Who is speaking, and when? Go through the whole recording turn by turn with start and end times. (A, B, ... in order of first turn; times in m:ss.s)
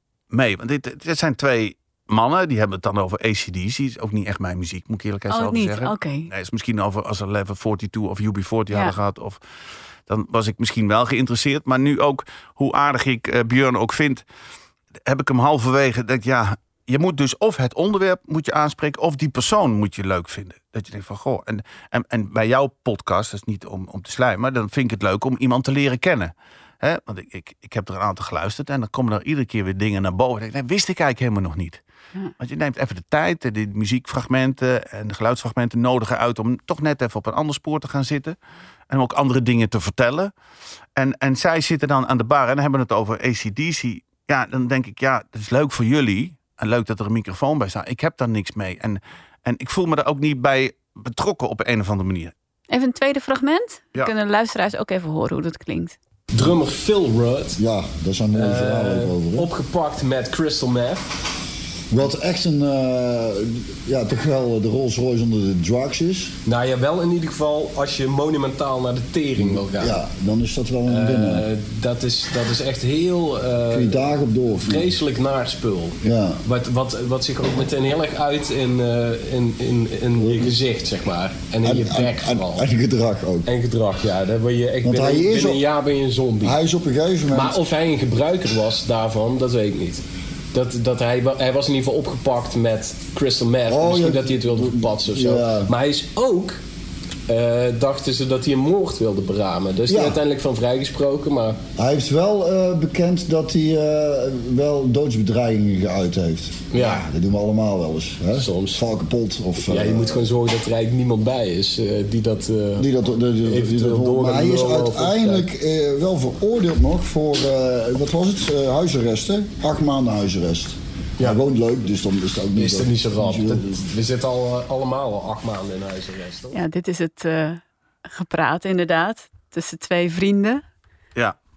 0:00.3-0:09.4 A
0:05.3-0:06.3 B
0:10.1-0:14.2 A
0:15.0-0:31.8 A
0:32.4-0:38.4 A
0:38.9-0:40.3 A
0:41.0-0:52.3 A
0:52.7-0:56.0 B
0:56.3-0:57.6 C
0:57.6-0:59.4 D
0:58.3-1:01.1 C
1:01.9-1:06.3 D
1:06.4-1:10.0 C
1:09.4-1:11.4 D
1:10.8-1:22.7 C
1:13.7-1:14.8 D
1:16.0-1:16.4 D
1:21.7-1:23.5 D
1:23.4-1:26.6 C
1:24.8-1:25.6 D
1:26.4-1:27.6 D
1:27.3-1:36.6 C
1:37.3-1:41.6 C
1:41.8-1:48.5 D
1:46.7-1:47.1 C
1:47.8-1:55.5 C
1:49.1-1:50.2 D
1:53.3-2:03.2 D
1:56.2-1:57.5 C
2:01.2-2:06.6 C
2:06.5-2:10.6 B